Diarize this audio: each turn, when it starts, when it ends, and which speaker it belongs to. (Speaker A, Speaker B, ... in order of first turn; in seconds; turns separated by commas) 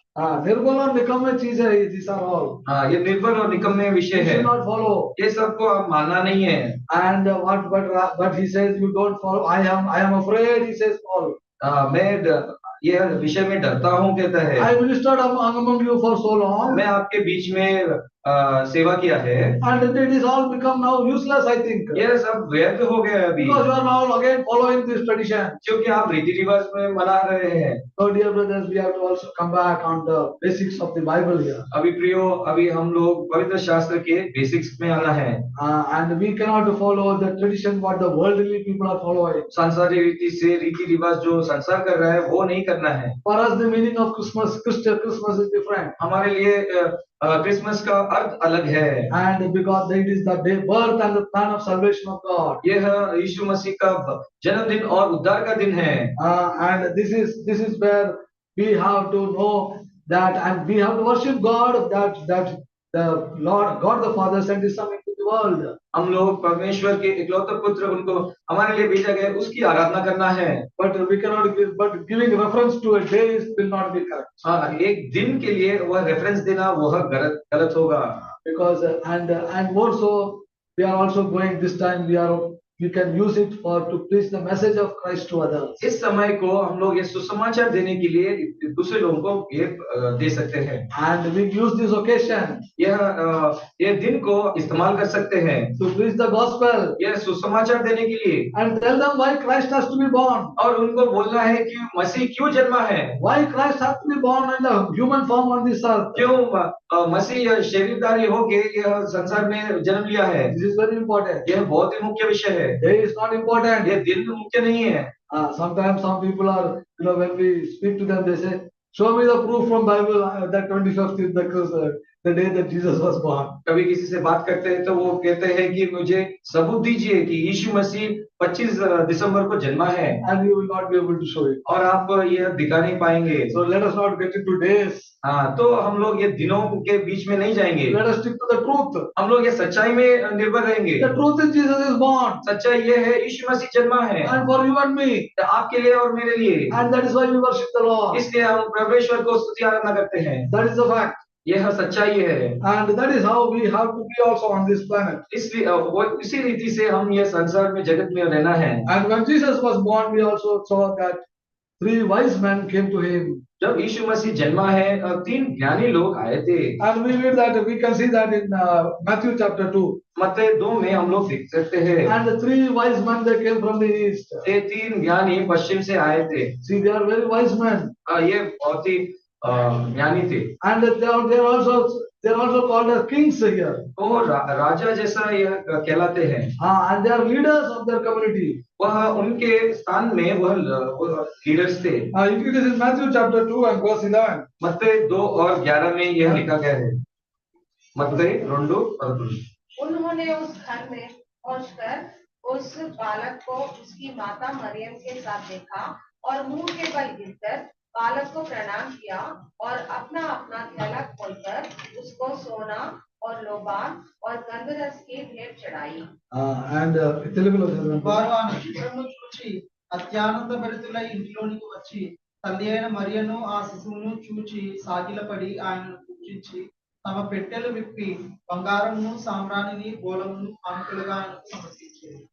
Speaker A: 0.2-2.6, Speaker B: 2.7-4.5, Speaker A: 4.1-5.1, Speaker B: 5.2-6.8, Speaker A: 6.9-11.4, Speaker B: 11.6-14.7, Speaker A: 14.6-16.8, Speaker B: 16.7-19.6, Speaker A: 19.6-22.0, Speaker B: 21.9-23.6, Speaker A: 23.4-25.6, Speaker B: 25.6-27.8, Speaker A: 28.0-31.7, Speaker B: 31.7-35.5, Speaker A: 35.6-39.5, Speaker B: 39.5-43.2, Speaker A: 43.2-46.0, Speaker B: 46.0-49.1, Speaker A: 49.1-52.6, Speaker B: 52.6-56.1, Speaker A: 56.2-65.8, Speaker B: 65.9-70.7, Speaker A: 70.8-74.4, Speaker B: 74.4-78.2, Speaker A: 78.4-85.8, Speaker B: 85.8-90.8, Speaker A: 90.9-92.6, Speaker B: 92.8-95.8, Speaker A: 95.8-97.0, Speaker B: 97.0-98.5, Speaker A: 98.5-100.5, Speaker B: 100.6-103.2, Speaker A: 103.2-106.2, Speaker B: 106.2-110.5, Speaker A: 110.5-111.5, Speaker B: 111.5-112.8, Speaker A: 112.8-113.9, Speaker B: 113.8-115.1, Speaker A: 115.3-123.6, Speaker B: 123.7-130.2, Speaker A: 130.2-131.6, Speaker B: 131.7-133.6, Speaker A: 133.5-135.1, Speaker B: 135.2-138.0, Speaker A: 137.9-139.1, Speaker B: 139.2-141.1, Speaker A: 141.0-142.4, Speaker B: 142.4-144.4, Speaker A: 144.2-145.3, Speaker B: 145.4-146.8, Speaker A: 146.7-148.2, Speaker B: 148.1-150.5, Speaker A: 150.5-151.2, Speaker B: 151.4-152.6, Speaker A: 152.6-155.2, Speaker B: 155.3-158.9, Speaker A: 158.9-161.2, Speaker A: 161.8-163.4, Speaker B: 163.6-166.8, Speaker A: 166.8-170.0, Speaker B: 170.2-172.1, Speaker A: 172.1-174.5, Speaker B: 174.4-176.6, Speaker A: 176.6-177.9, Speaker B: 178.1-180.5, Speaker A: 180.6-183.9, Speaker B: 184.0-186.5, Speaker A: 186.6-188.6, Speaker B: 188.8-192.1, Speaker A: 192.1-194.4, Speaker B: 194.6-197.0, Speaker B: 197.9-199.4, Speaker C: 199.8-216.1, Speaker A: 216.3-218.2, Speaker D: 218.0-232.2